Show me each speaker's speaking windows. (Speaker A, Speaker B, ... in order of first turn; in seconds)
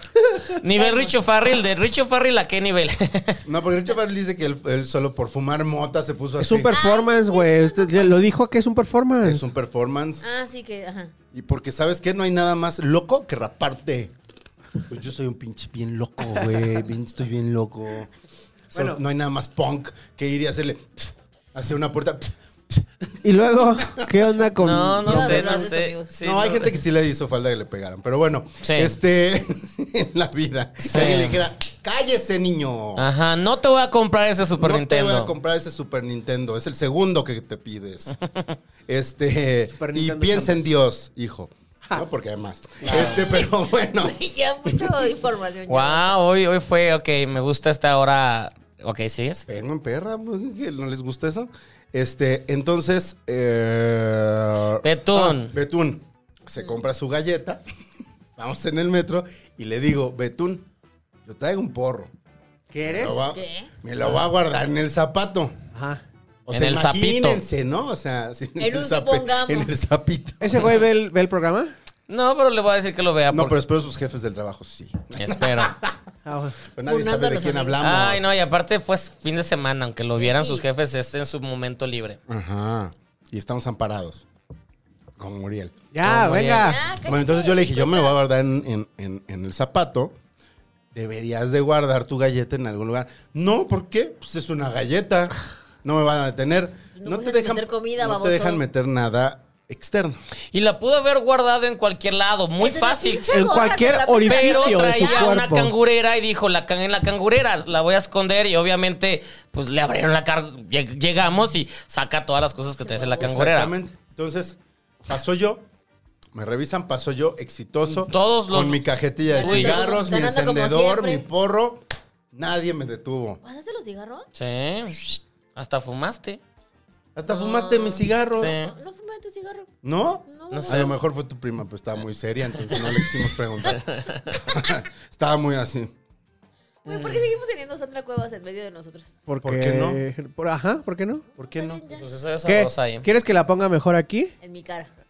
Speaker A: 0.6-3.4, 24.6-26.8, 28.6-28.9, 30.8-31.5, 33.0-35.3, 42.9-43.2, 45.7-49.5, 54.8-55.5, 66.5-67.4, 70.6-70.8, 72.1-73.6, 75.2-75.8, 77.8-82.2, 86.0-86.7, 100.5-103.3, 104.2-113.7, 117.9-118.8, 119.4-120.0, 124.3-126.4, 128.4-128.7, 130.5-130.9, 133.7-134.4, 136.9-137.3, 141.9-143.1
Speaker B: 0.8-1.1, 6.7-8.3, 10.2-11.1, 25.1-26.1, 43.0-46.2, 63.3-63.7, 68.6-69.7, 76.8-77.8, 80.2-80.7, 86.5-88.2, 97.0-98.6, 102.6-105.3, 112.8-113.3, 119.3-121.3, 123.4-124.3, 127.3-129.7, 130.3-130.9, 136.8-139.1, 141.3-142.0, 144.4-144.9
Speaker C: 3.5-6.7, 9.2-10.3, 11.3-14.1, 14.9-18.1, 18.7-22.9, 23.6-24.5, 25.1-25.6, 26.2-33.1, 34.6-38.2, 38.9-45.1, 49.5-57.6, 58.4-60.7, 61.2-62.1, 62.8-65.6, 66.5-70.7, 73.3-76.0, 76.7-78.3, 82.3-84.3, 85.2-86.5, 87.0-90.2, 90.9-100.2, 113.2-115.7, 116.3-123.4, 127.2-128.6, 129.8-135.9, 139.4-140.0, 141.4-141.8
Speaker D: 6.4-9.5, 18.7-19.0, 23.2-25.4, 39.8-40.7, 62.7-63.2, 65.7-66.0, 70.4-71.7, 76.3-76.6, 85.9-86.8, 103.3-105.7, 139.3-141.3, 142.5-144.3